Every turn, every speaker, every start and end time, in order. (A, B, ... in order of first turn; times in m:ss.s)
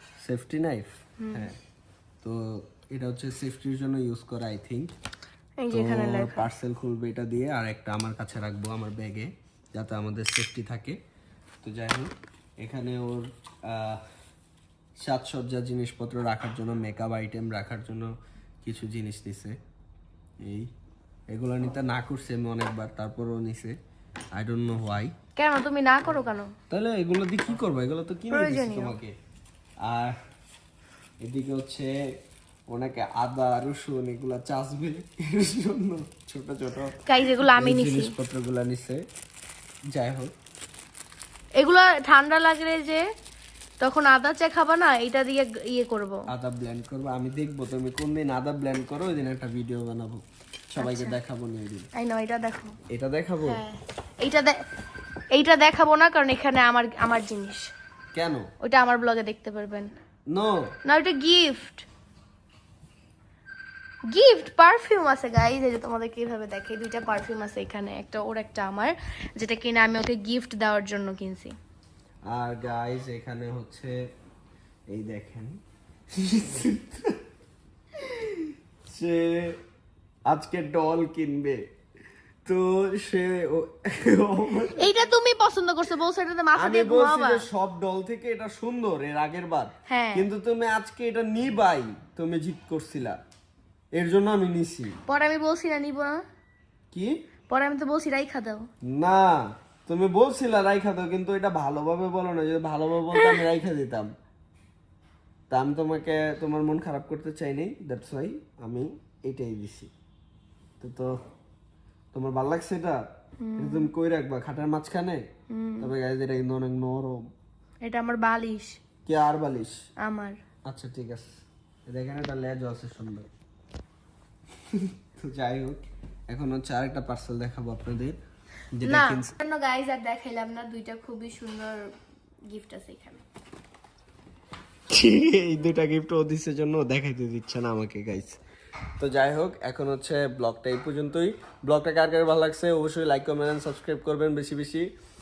0:00.2-0:01.6 A
0:01.2-0:01.5 B
0:02.2-0:04.9 A
0:05.6-0:06.5 B
0:05.7-0:11.0 A
0:11.6-0:12.1 A
0:12.6-0:14.0 A
0:15.0-0:18.1 A
0:18.6-0:19.6 A
0:20.4-0:20.7 A
0:21.3-0:23.8 A
0:24.4-0:25.1 A
0:25.4-0:26.5 B
0:26.7-0:29.1 A
0:28.3-0:29.0 B
0:29.8-0:30.2 A
0:31.2-0:31.9 A
0:32.7-0:39.0 A
0:37.1-0:38.1 B
0:39.9-0:40.3 A
0:41.6-0:43.0 B
0:43.8-0:46.2 B
0:46.3-0:51.9 A
0:50.8-0:51.2 B
0:52.0-0:52.8 B
0:52.9-0:53.6 A
0:53.4-0:54.6 B
0:55.3-0:57.7 B
0:58.1-0:58.5 A
0:58.6-0:59.9 B
1:00.3-1:00.7 A
1:00.8-1:01.9 B
1:04.1-1:11.6 B
1:12.3-1:14.0 A
1:14.9-1:15.5 A
1:16.1-1:17.2 A
1:18.0-1:19.6 A
1:20.3-1:21.6 A
1:22.5-1:24.9 A
1:24.8-1:27.4 B
1:26.6-1:33.2 A
1:29.9-1:30.3 B
1:34.0-1:35.0 A
1:35.1-1:36.2 B
1:37.5-1:38.7 B
1:38.9-1:44.1 A
1:43.1-1:43.4 B
1:45.5-1:49.9 A
1:50.8-1:51.2 A
1:52.1-1:53.0 A
1:53.4-1:53.9 B
1:53.6-1:55.2 A
1:55.5-1:55.9 B
1:55.8-1:57.2 A
1:57.9-1:58.8 B
1:59.1-1:59.8 A
2:00.0-2:00.4 B
2:00.7-2:01.3 A
2:01.9-2:03.3 A
2:04.7-2:08.2 A
2:08.8-2:09.4 A
2:08.8-2:11.9 B
2:12.5-2:13.2 B
2:14.9-2:18.4 A
2:19.0-2:24.9 A